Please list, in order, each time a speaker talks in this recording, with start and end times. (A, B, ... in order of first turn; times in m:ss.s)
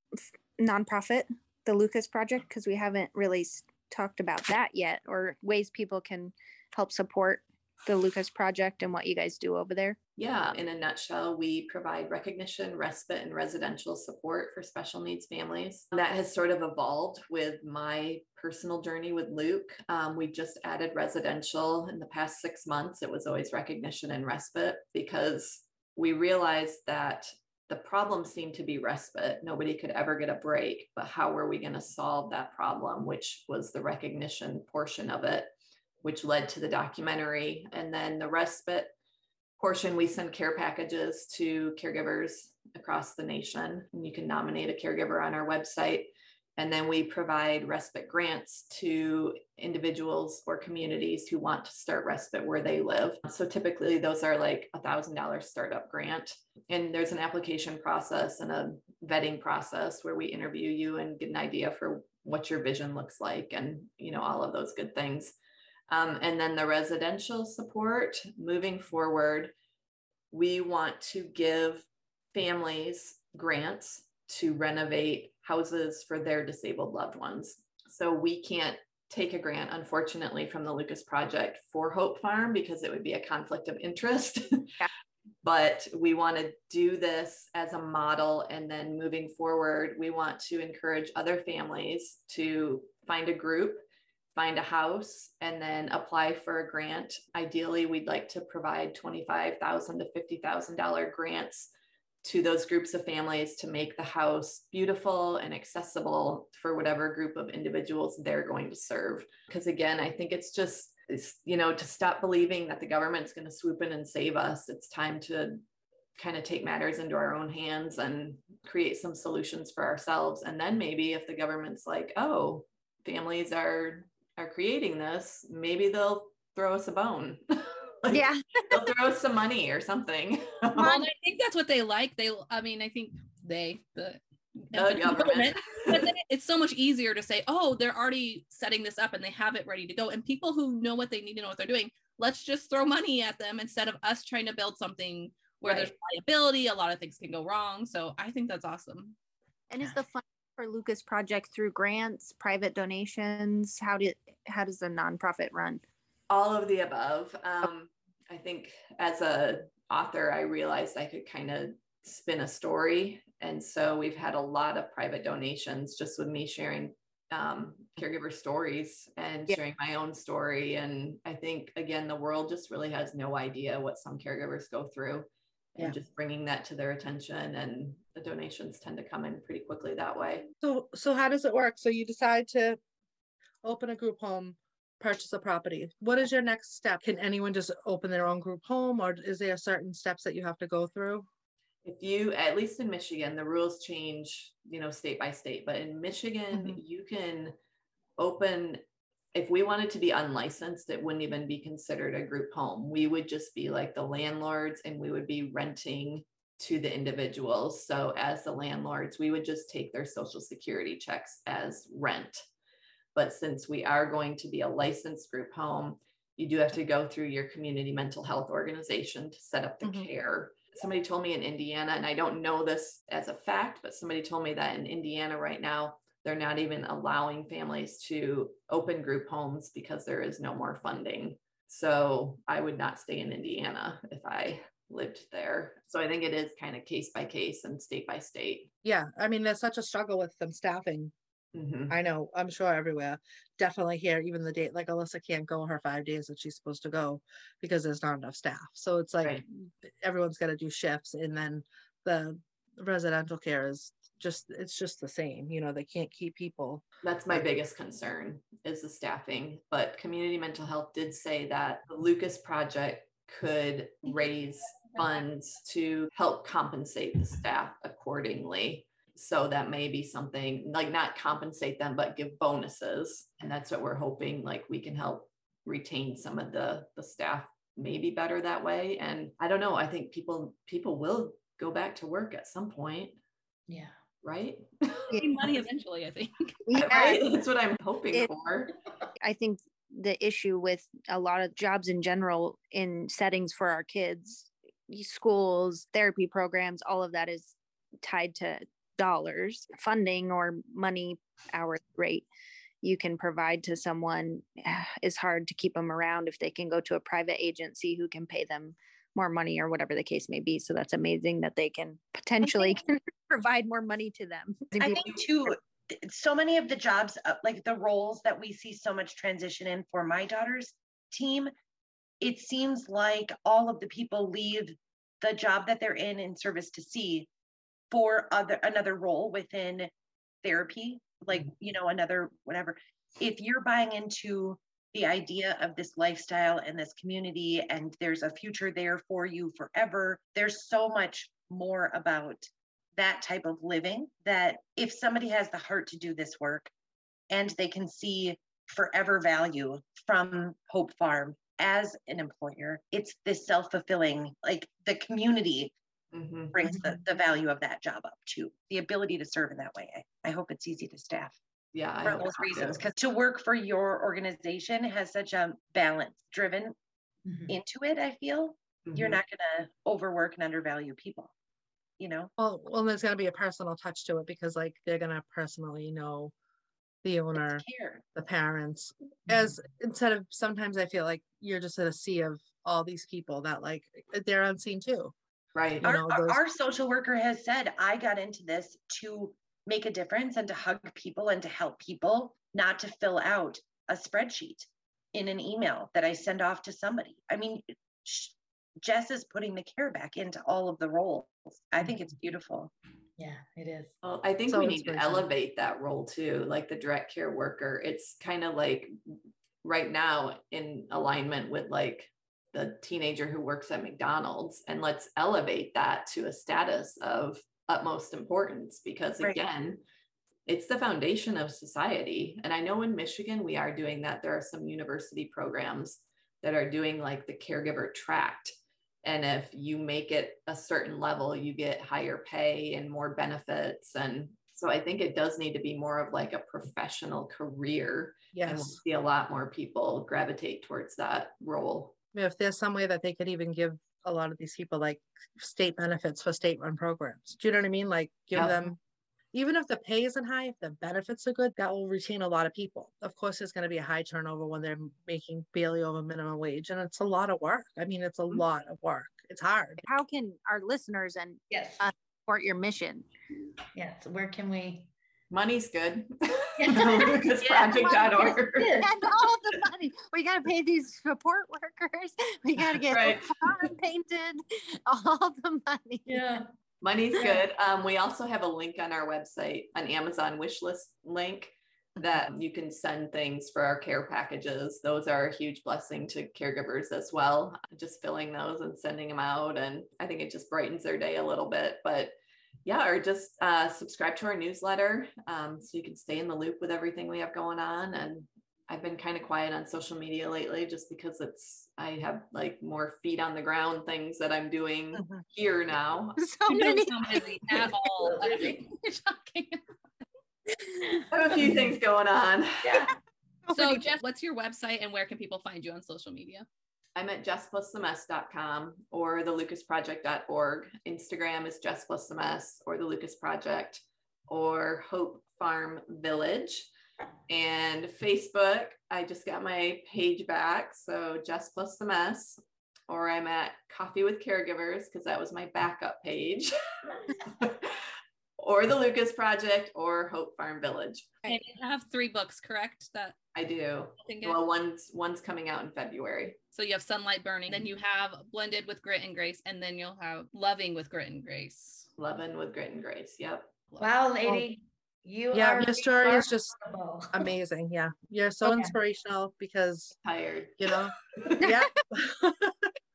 0:00.6-0:10.0 A
0:10.2-0:38.9 B
0:39.6-1:05.3 B
1:05.9-1:09.5 B
1:10.3-1:24.9 B
1:25.4-1:33.8 B
1:34.3-1:41.7 B
1:42.2-1:55.6 B
1:56.2-2:11.1 B
2:08.1-2:08.9 A
2:10.7-2:29.2 C
2:14.7-2:16.1 B
2:25.6-2:25.9 B
2:29.7-2:35.8 A
2:36.3-3:00.5 B
3:00.6-3:02.8 D
3:03.6-3:11.3 D
3:11.8-3:17.5 B
3:16.5-3:16.8 E
3:18.2-3:18.8 B
3:19.3-3:32.4 B
3:33.1-3:58.7 B
3:39.8-3:40.1 D
3:58.8-4:01.1 D
4:01.5-4:02.0 B
4:01.9-4:17.4 D
4:17.0-4:43.2 B
4:43.7-4:43.9 F
4:44.2-4:45.0 B
4:45.1-4:47.1 C
4:46.6-4:47.3 A
4:46.8-4:48.7 B
4:49.2-5:02.3 A
5:02.8-5:15.1 A
5:14.7-5:21.5 E
5:22.2-5:27.3 E
5:27.9-5:29.9 E
5:30.4-5:46.7 E
5:47.3-5:55.7 E
5:56.1-5:57.0 B
5:56.5-6:01.4 E
6:01.7-6:02.8 B
6:02.0-6:06.7 E
6:07.2-6:07.5 F
6:07.5-6:11.3 E
6:08.8-6:09.2 B
6:12.0-6:12.3 E
6:12.4-6:16.3 D
6:17.0-6:25.1 D
6:17.4-6:18.0 E
6:25.5-6:25.8 B
6:25.8-6:26.4 D
6:25.8-6:42.7 E
6:43.2-6:43.9 F
6:44.0-6:48.9 B
6:44.5-6:45.3 D
6:49.6-6:59.8 B
7:00.5-7:21.9 B
7:18.3-7:18.8 D
7:22.1-7:28.8 D
7:29.3-7:39.8 D
7:39.8-7:43.0 A
7:41.5-7:41.9 F
7:43.7-7:44.9 F
7:45.3-7:48.7 B
7:46.6-7:48.9 F
7:47.5-7:56.2 A
7:52.9-7:53.7 B
7:56.0-7:56.4 F
7:56.8-8:12.1 B
8:12.6-8:26.2 B
8:24.9-8:25.2 E
8:26.3-8:26.7 D
8:26.4-8:29.6 C
8:31.1-8:32.9 B
8:33.5-8:36.5 C
8:37.0-8:46.7 B
8:47.3-8:57.8 B
8:58.4-9:01.2 B
9:01.2-9:03.2 C
9:03.3-9:06.4 B
9:04.0-9:04.4 C
9:06.5-9:11.9 C
9:12.0-9:13.5 B
9:13.8-9:17.2 F
9:15.3-9:16.6 D
9:17.1-9:19.9 D
9:18.4-9:18.7 F
9:20.0-9:21.5 B
9:20.6-9:22.7 D